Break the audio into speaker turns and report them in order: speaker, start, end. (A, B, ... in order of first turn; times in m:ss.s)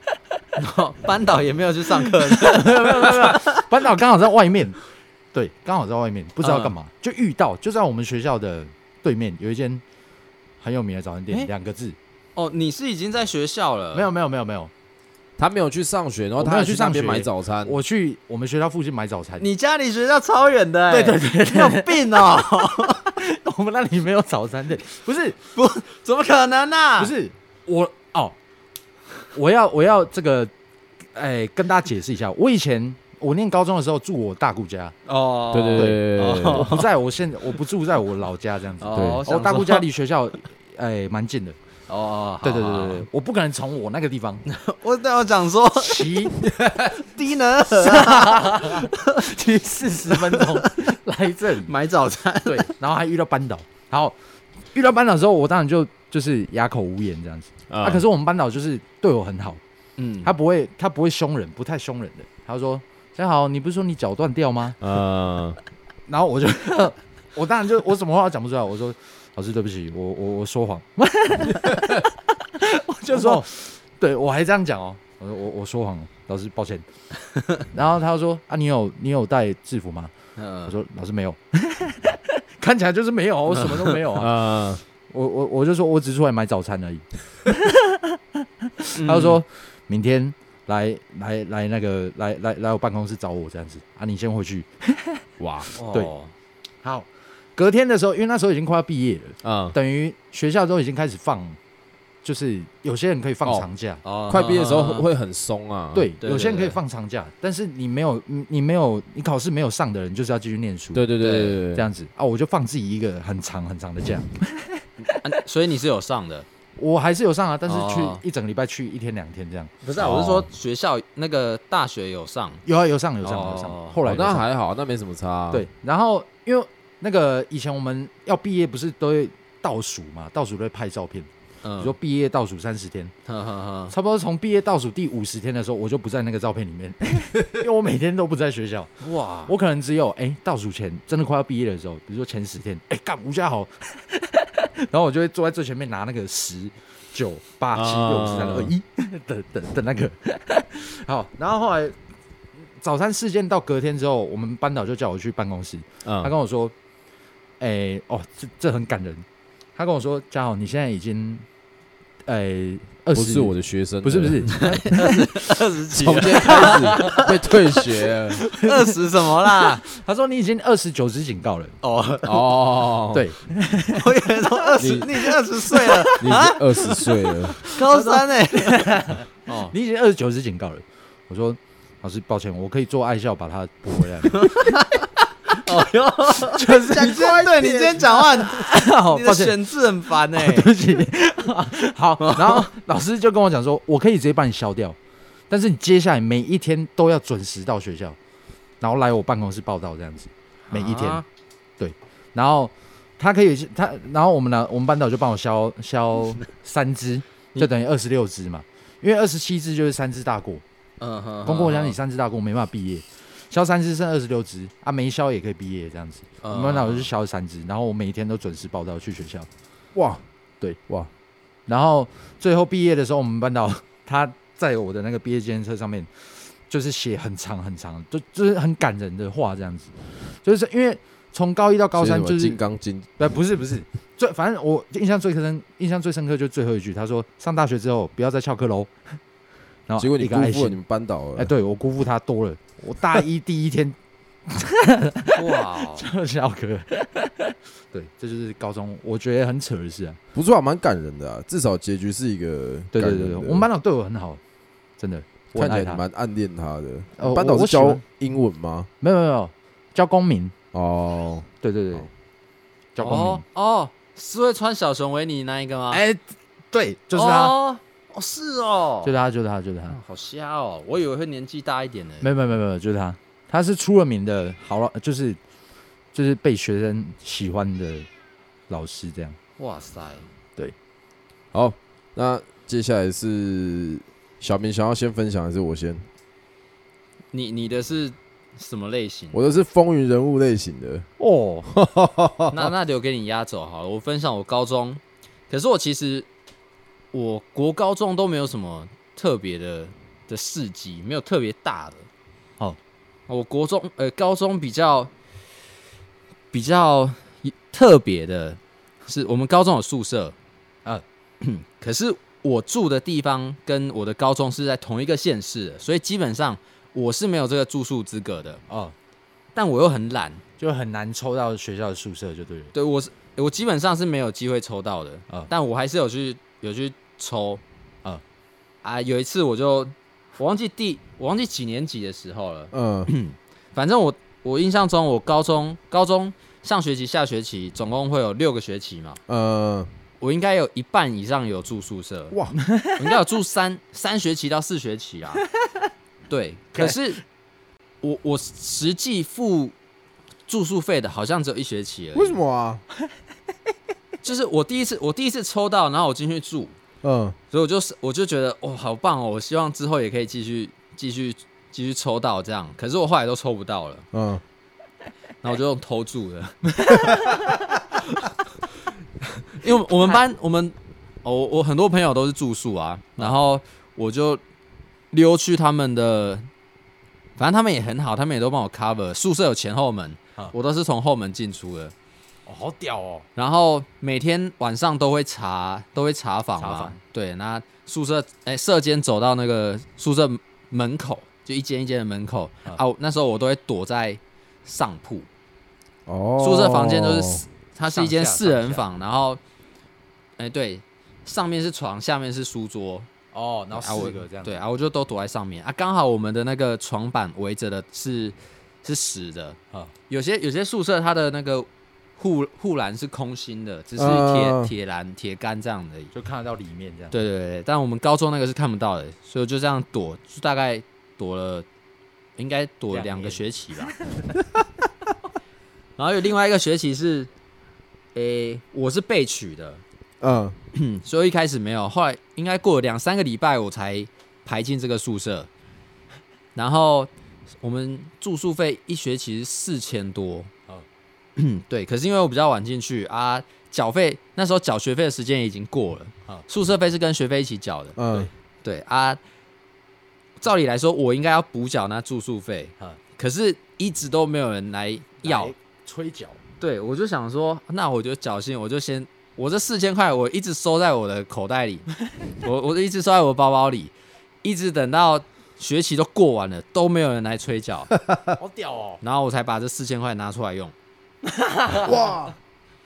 0:00.6-0:03.6 A
0:02.0-0:04.8 B
0:05.3-0:09.8 B
0:06.4-0:06.8 A
0:10.6-0:12.0 B
0:12.4-0:14.1 A
0:13.9-0:14.7 B
0:15.4-0:17.8 C
0:16.4-0:19.5 B
0:19.4-0:23.2 A
0:20.9-0:22.5 B
0:23.2-0:25.4 B
0:25.5-0:27.2 A
0:27.0-0:28.4 B
0:29.3-0:30.5 B
0:31.2-0:35.0 B
0:35.1-0:36.9 A
0:35.5-0:36.8 C
0:35.8-0:41.6 B
0:38.8-0:39.8 A
0:41.9-0:43.1 A
0:42.4-0:44.4 B
0:44.5-0:46.3 A
0:45.8-0:46.4 B
0:46.4-0:47.0 C
0:46.9-0:49.3 A
0:47.7-0:51.7 B
0:50.1-0:50.7 A
0:51.6-0:52.7 A
0:52.5-0:54.2 B
0:54.7-0:59.6 B
0:57.7-0:58.0 C
1:00.0-1:00.3 A
1:00.2-1:04.8 B
1:04.8-1:05.6 C
1:06.1-1:16.9 B
1:13.1-1:13.4 A
1:17.7-1:20.1 B
1:20.4-1:20.8 A
1:20.7-1:24.3 B
1:24.2-1:24.8 C
1:25.1-1:35.2 B
1:29.0-1:29.4 A
1:35.4-1:35.7 C
1:35.8-1:36.3 A
1:36.8-1:41.6 B
1:39.4-1:39.8 C
1:42.2-1:44.0 B
1:44.0-1:45.1 A
1:44.3-1:46.1 C
1:45.9-1:51.1 B
1:46.2-1:46.8 A
1:50.9-1:51.9 C
1:51.2-1:51.6 A
1:51.6-1:55.2 B
1:55.1-1:56.5 A
1:56.8-1:59.7 B
1:57.7-1:58.2 A
1:59.8-2:02.6 A
2:00.0-2:00.5 C
2:02.6-2:04.4 B
2:03.2-2:04.0 A
2:04.0-2:05.7 C
2:05.5-2:13.1 B
2:11.6-2:12.0 A
2:13.3-2:13.9 A
2:13.9-2:32.0 B
2:19.0-2:19.5 A
2:27.7-2:28.7 C
2:32.8-2:36.7 B
2:36.0-2:36.3 C
2:37.6-2:41.4 B
2:42.3-2:45.6 B
2:43.2-2:44.6 C
2:44.6-2:49.8 A
2:45.9-2:48.4 C
2:46.1-2:47.2 B
2:48.5-2:51.8 B
2:51.8-2:52.5 A
2:52.2-2:53.3 C
2:53.1-2:54.6 B
2:53.9-2:57.1 A
2:54.8-2:55.1 C
2:55.2-2:56.2 B
2:56.2-2:57.6 C
2:57.6-3:04.7 B
2:57.6-2:58.9 A
2:59.5-2:59.7 A
3:04.3-3:10.7 A
3:06.5-3:07.5 B
3:06.9-3:08.2 C
3:08.3-3:09.6 B
3:10.3-3:15.0 B
3:12.2-3:12.7 A
3:15.5-3:18.2 B
3:18.8-3:21.2 B
3:20.7-3:21.2 A
3:21.8-3:30.6 B
3:31.0-3:32.0 A
3:31.4-3:39.5 B
3:36.4-3:37.1 A
3:40.0-3:40.2 C
3:41.7-3:52.6 B
3:52.0-3:53.2 C
3:53.2-3:59.2 B
3:59.9-4:00.8 B
4:00.0-4:01.5 C
4:01.4-4:04.0 B
4:04.5-4:10.2 B
4:05.4-4:06.1 A
4:10.3-4:13.7 C
4:12.9-4:14.4 B
4:15.0-4:16.0 B
4:15.5-4:18.9 C
4:17.2-4:18.0 B
4:19.0-4:20.5 B
4:20.7-4:21.5 C
4:21.6-4:22.1 B
4:23.0-4:23.4 B
4:23.0-4:26.0 A
4:25.9-4:26.2 B
4:26.7-4:27.6 B
4:27.1-4:29.1 A
4:29.0-4:30.0 B
4:29.9-4:32.3 A
4:32.2-4:35.4 B
4:36.1-4:38.1 B
4:38.7-4:39.4 B
4:39.6-4:40.3 A
4:41.5-4:46.1 C
4:47.3-4:49.4 A
4:49.3-4:51.1 C
4:51.2-4:51.7 B
4:51.7-4:52.7 C
4:52.5-4:56.3 A
4:57.1-5:02.1 A
5:03.3-5:05.1 A
5:06.5-5:10.4 A
5:11.4-5:18.6 A
5:18.7-5:18.9 B
5:19.6-5:20.4 A
5:20.6-5:22.7 B
5:22.7-5:27.6 A
5:28.8-5:39.2 A
5:32.7-5:33.1 C
5:39.3-5:39.9 C
5:40.2-5:42.4 A
5:42.3-5:42.6 C
5:42.6-5:43.2 B
5:43.0-5:45.4 A
5:46.3-5:47.2 A
5:46.7-5:47.1 B
5:48.0-5:49.8 A
5:50.5-5:52.4 A
5:52.1-5:52.8 C
5:54.2-5:56.8 A
5:57.0-5:57.4 C
5:57.5-6:04.1 A
6:04.1-6:04.4 C
6:05.4-6:07.4 A
6:06.9-6:07.3 B
6:09.5-6:14.4 A
6:15.1-6:16.5 A
6:17.4-6:21.9 A
6:22.5-6:23.3 B
6:23.4-6:35.3 A
6:26.6-6:27.0 B
6:36.1-6:37.4 C
6:36.4-6:39.4 A
6:37.9-6:38.8 B
6:40.4-6:43.1 A
6:43.3-6:44.6 B
6:43.7-6:49.6 A
6:50.1-6:56.1 A
6:54.0-6:54.7 C
6:56.1-6:57.1 B
6:57.1-7:01.7 A
7:02.4-7:04.0 A
7:02.9-7:04.3 B
7:06.0-7:07.3 A
7:08.1-7:09.8 A
7:10.2-7:10.6 C
7:10.7-7:15.5 A
7:16.6-7:20.5 A
7:21.4-7:28.0 A
7:28.0-7:28.3 C
7:28.6-7:29.2 A
7:30.4-7:35.5 A
7:35.2-7:36.4 B
7:36.6-7:43.9 A
7:44.4-7:47.9 A
7:48.4-7:49.0 B
7:49.0-7:50.7 A
7:51.3-7:52.1 B
7:51.8-7:52.4 C